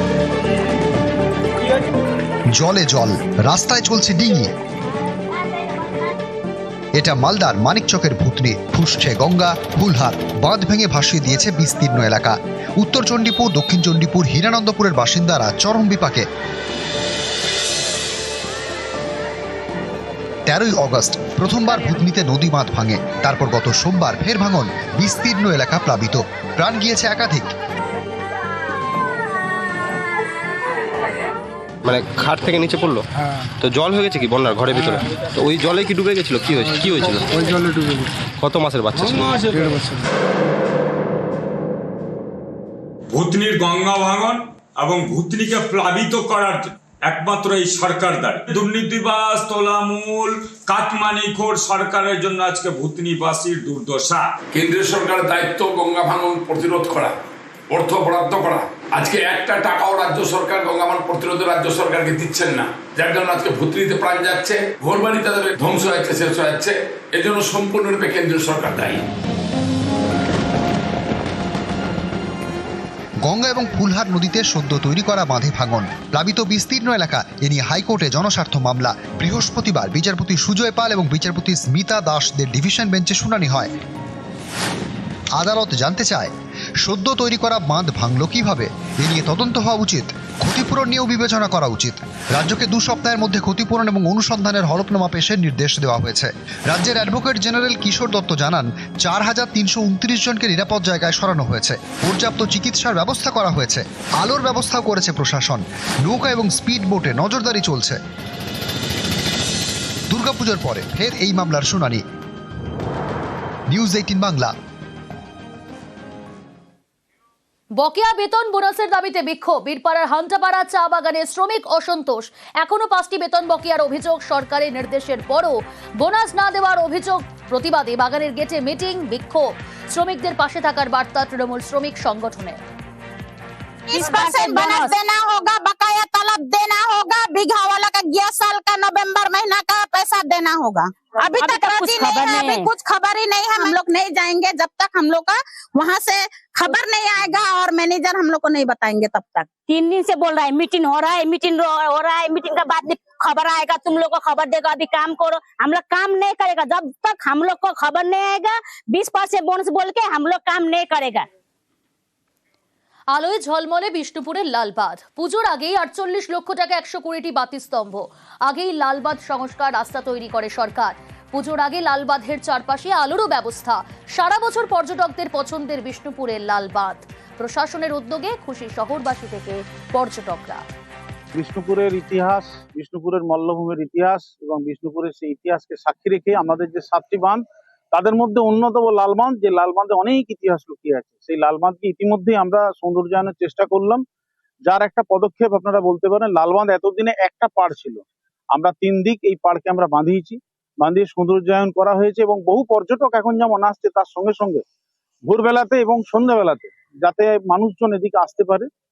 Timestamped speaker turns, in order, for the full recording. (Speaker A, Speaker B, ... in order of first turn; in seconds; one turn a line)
Speaker A: 2.5-4.5
Speaker A: 7.0-16.2
Speaker A: 20.5-27.5
Speaker B: 31.8-33.0
Speaker B: 33.6-37.5
Speaker B: 38.3-39.4
Speaker C: 43.1-54.3
Speaker D: 54.5-57.1
Speaker D: 57.7-69.0
Speaker A: 73.2-83.7
Speaker A: 85.3-108.0
Speaker A: 110.1-112.0
Speaker A: 113.7-114.5
Speaker E: 117.8-132.6
Speaker F: 133.9-149.5
Speaker G: 133.9-134.9
Speaker G: 141.3-142.7
Speaker G: 149.7-161.3
Speaker E: 163.1-180.6
Speaker H: 181.3-194.0
Speaker H: 194.6-204.6
Speaker H: 205.2-208.7